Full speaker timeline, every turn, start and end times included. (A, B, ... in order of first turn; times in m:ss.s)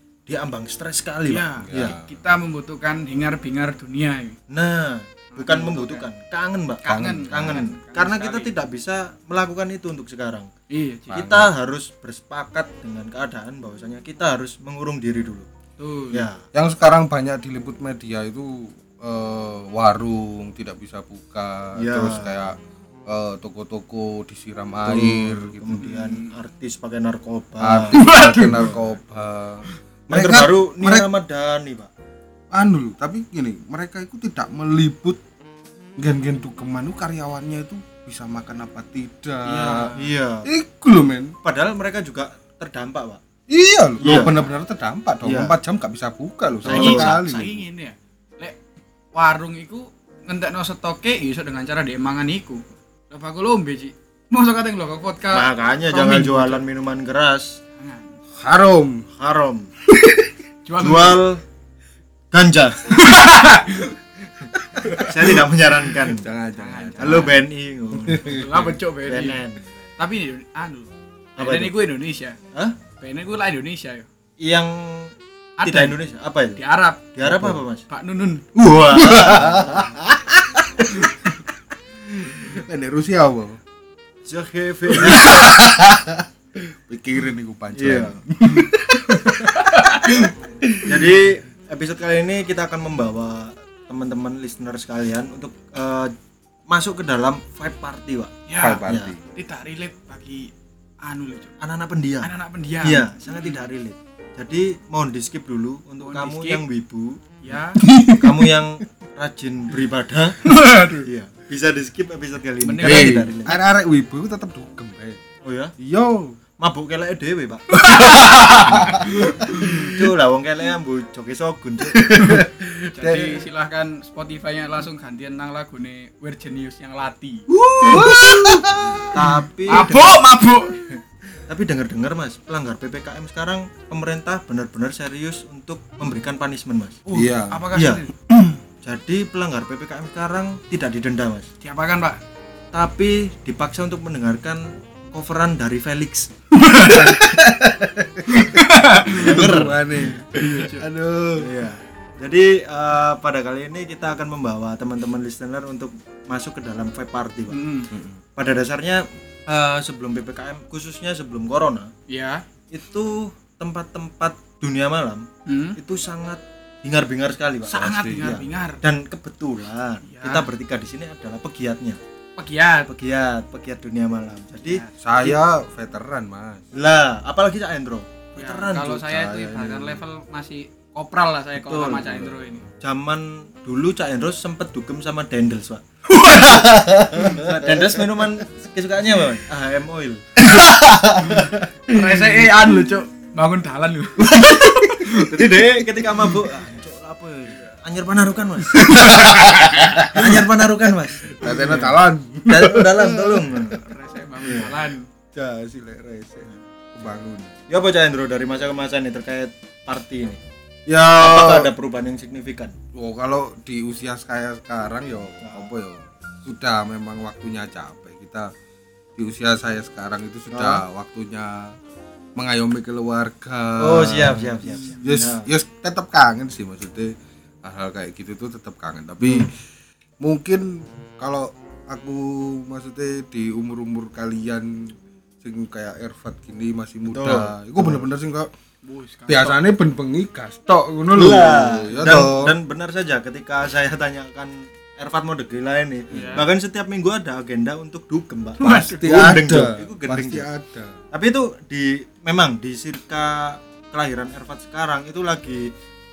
0:00.3-0:02.0 A
0:01.3-0:04.4 B
0:01.6-0:02.2 C
0:04.5-0:10.5 A
0:05.3-0:06.0 B
0:06.8-0:08.6 B
0:06.9-0:07.6 C
0:10.7-0:11.3 B
0:11.1-0:11.5 C
0:11.1-0:15.5 A
0:15.8-0:16.3 B
0:16.1-0:16.4 A
0:16.5-0:25.7 C
0:21.8-0:22.4 A
0:24.9-0:28.0 A
0:25.7-0:26.3 B
0:27.6-0:31.1 C
0:27.9-0:28.8 B
0:30.1-0:31.9 A
0:32.5-0:35.2 C
0:36.0-0:39.9 C
0:39.4-0:40.1 B
0:40.0-0:40.5 A
0:40.5-0:41.4 C
0:41.4-0:43.2 A
0:43.5-0:47.6 C
0:44.0-0:44.4 A
0:45.2-0:45.6 A
0:46.6-0:47.2 A
0:46.6-0:48.6 B
0:49.2-0:56.6 B
0:55.3-0:57.6 A
0:57.8-0:58.2 B
0:58.4-0:59.0 C
0:59.2-0:59.7 A
0:59.9-1:00.4 C
1:00.6-1:01.2 B
1:00.8-1:01.4 A
1:02.3-1:03.2 A
1:03.0-1:04.0 B
1:04.8-1:05.0 C
1:04.9-1:06.3 A
1:06.0-1:07.4 C
1:06.6-1:07.4 B
1:07.0-1:09.8 A
1:08.0-1:08.5 C
1:08.3-1:09.4 B
1:10.0-1:12.4 B
1:11.4-1:11.7 A
1:13.0-1:14.1 B
1:14.4-1:16.6 A
1:15.6-1:16.0 B
1:16.6-1:18.5 B
1:17.1-1:17.8 A
1:17.3-1:17.6 C
1:18.6-1:19.9 A
1:19.0-1:21.1 C
1:22.2-1:23.6 C
1:24.2-1:25.5 A
1:25.0-1:31.1 C
1:27.8-1:28.2 A
1:29.3-1:30.3 B
1:30.8-1:36.1 A
1:36.7-1:38.3 A
1:38.5-1:40.5 B
1:38.6-1:39.2 C
1:38.9-1:39.1 A
1:41.0-1:41.6 B
1:41.6-1:47.2 A
1:42.2-1:43.6 B
1:46.0-1:46.6 B
1:47.4-1:47.8 B
1:47.9-1:48.2 C
1:48.1-1:50.4 A
1:50.4-1:51.1 B
1:51.0-1:53.6 A
1:52.6-1:53.3 B
1:52.8-1:55.2 C
1:55.4-1:55.7 A
1:55.8-1:56.4 C
1:56.6-1:57.8 A
1:57.7-1:59.9 B
1:58.7-1:59.8 C
1:59.8-2:02.1 A
2:02.0-2:03.5 C
2:02.0-2:08.7 B
2:07.7-2:09.4 C
2:07.8-2:08.1 A
2:09.1-2:10.2 A
2:09.7-2:10.8 B
2:10.9-2:17.0 A
2:17.1-2:18.5 B
2:17.1-2:17.6 C
2:17.7-2:18.0 A
2:18.8-2:21.5 A
2:21.6-2:22.2 B
2:22.7-2:26.3 A
2:26.5-2:27.3 B
2:26.9-2:31.5 C
2:28.3-2:29.6 B
2:29.1-2:30.2 A
2:30.3-2:30.9 B
2:31.4-2:37.6 A
2:37.5-2:37.9 B
2:37.9-2:38.2 C
2:38.4-2:41.9 A
2:42.1-2:42.4 B
2:42.7-2:45.3 A
2:45.5-2:45.8 B
2:45.8-2:52.0 A
2:47.7-2:48.8 B
2:47.7-2:48.4 C
2:50.1-2:50.5 B
2:52.4-2:52.9 B
2:52.9-2:55.4 A
2:54.6-2:54.9 B
2:55.0-2:56.7 C
2:56.7-2:59.0 A
2:58.4-3:02.6 B
2:58.9-3:00.0 C
3:01.6-3:02.1 A
3:02.0-3:02.6 C
3:02.8-3:06.4 A
3:06.1-3:06.8 B
3:06.6-3:08.0 C
3:07.1-3:10.4 A
3:10.4-3:12.1 C
3:11.9-3:15.4 B
3:14.3-3:14.9 C
3:15.1-3:19.2 A
3:18.8-3:20.4 C
3:18.9-3:19.5 B
3:20.0-3:23.9 A
3:21.4-3:23.6 C
3:23.8-3:25.1 B
3:24.4-3:24.7 A
3:25.3-3:27.6 C
3:27.7-3:30.4 A
3:30.9-3:31.7 C
3:31.2-3:32.8 A
3:32.9-3:38.5 C
3:35.4-3:35.7 A
3:39.2-3:41.8 C
3:40.5-3:40.8 A
3:42.4-3:49.5 C
3:43.8-3:45.5 A
3:49.2-3:49.5 A
3:50.2-3:58.5 C
3:57.0-3:58.0 A
3:58.8-3:59.6 B
3:59.3-4:02.5 C
4:01.1-4:10.5 A
4:06.1-4:06.5 B
4:06.1-4:06.4 C
4:08.6-4:09.4 B
4:08.6-4:11.0 C
4:11.1-4:15.7 A